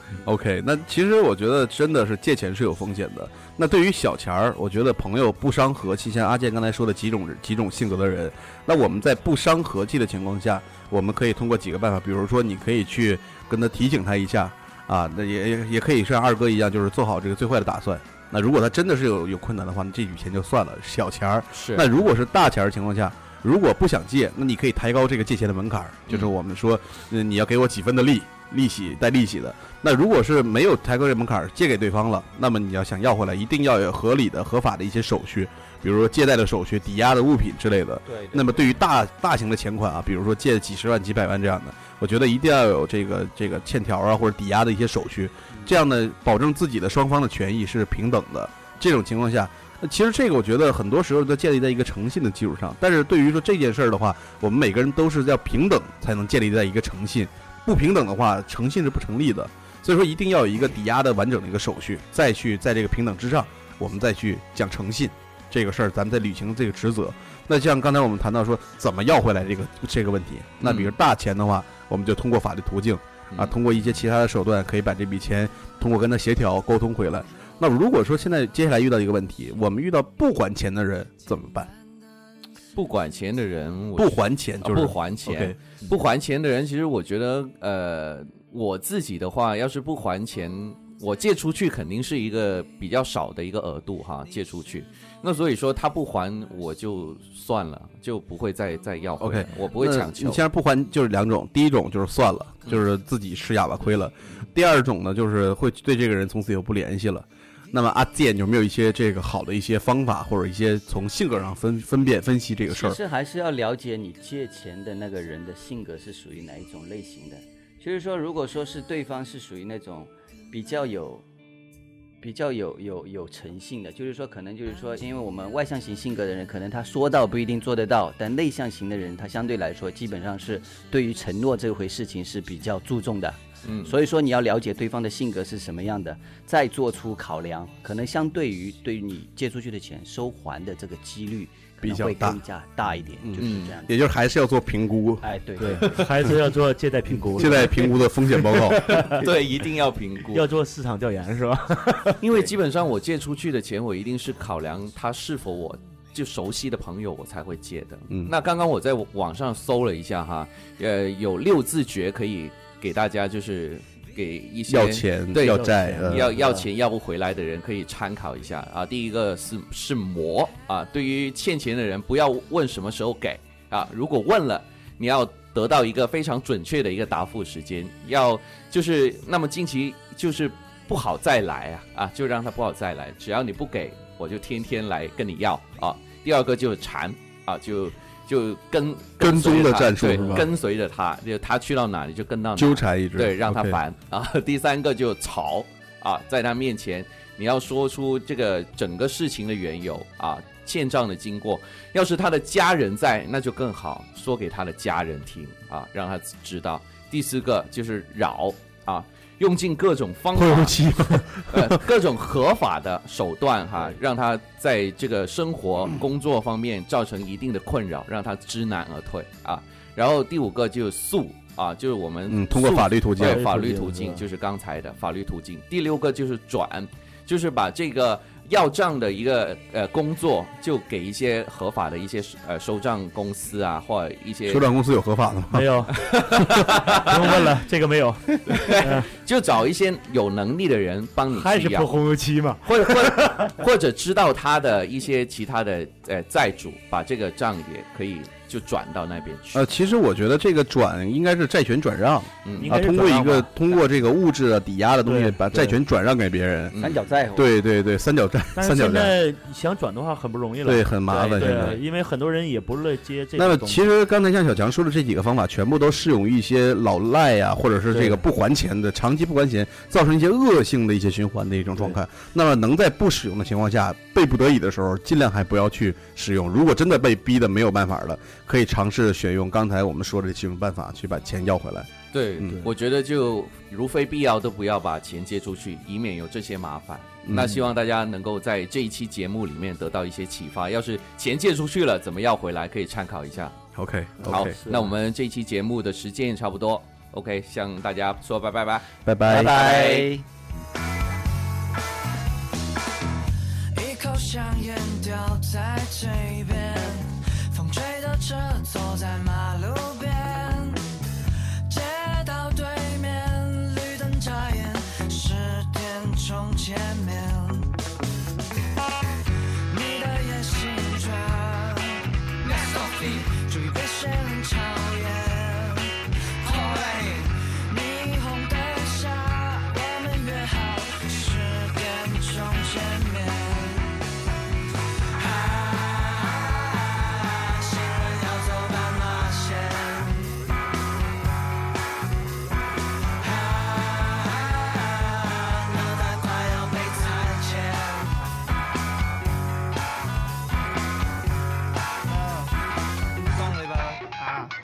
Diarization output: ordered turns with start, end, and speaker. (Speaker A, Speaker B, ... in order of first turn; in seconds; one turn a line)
Speaker A: 0.2-81.7
Speaker B: 38.1-38.6
Speaker B: 45.5-45.8
Speaker C: 82.8-100.4
Speaker A: 84.0-85.8
Speaker A: 99.2-113.0
Speaker B: 112.7-121.2
Speaker B: 122.2-143.9
Speaker C: 133.6-133.9
Speaker A: 141.8-142.4
Speaker A: 143.2-145.2
Speaker C: 143.4-143.7
Speaker B: 145.2-146.1
Speaker D: 145.6-149.3
Speaker A: 147.3-149.0
Speaker C: 149.0-150.4
Speaker D: 150.3-152.2
Speaker C: 152.2-165.6
Speaker A: 164.7-166.4
Speaker D: 165.4-166.7
Speaker C: 166.2-210.8
Speaker A: 189.2-190.5
Speaker D: 190.1-190.4
Speaker A: 192.6-193.8
Speaker A: 210.3-211.9
Speaker C: 211.5-234.6
Speaker A: 222.3-223.5
Speaker D: 223.2-224.3
Speaker A: 234.5-235.7
Speaker D: 235.5-239.1
Speaker C: 236.6-237.2
Speaker C: 238.5-241.9
Speaker D: 241.3-243.4
Speaker C: 242.7-249.7
Speaker A: 249.5-256.8
Speaker D: 252.6-253.5
Speaker D: 255.1-255.8
Speaker B: 256.8-257.5
Speaker A: 257.3-259.1
Speaker D: 258.6-263.8
Speaker A: 260.6-261.8
Speaker B: 261.1-261.8
Speaker A: 263.4-281.9
Speaker D: 267.9-268.2
Speaker C: 282.1-293.6
Speaker A: 287.2-287.7
Speaker A: 293.8-294.7
Speaker C: 294.3-298.9
Speaker D: 294.4-294.9
Speaker A: 299.1-299.6
Speaker B: 299.3-300.2
Speaker C: 299.4-300.1
Speaker E: 303.8-310.9
Speaker E: 311.7-317.8
Speaker E: 319.7-334.0
Speaker E: 335.1-340.4
Speaker E: 343.2-348.1
Speaker E: 353.4-354.1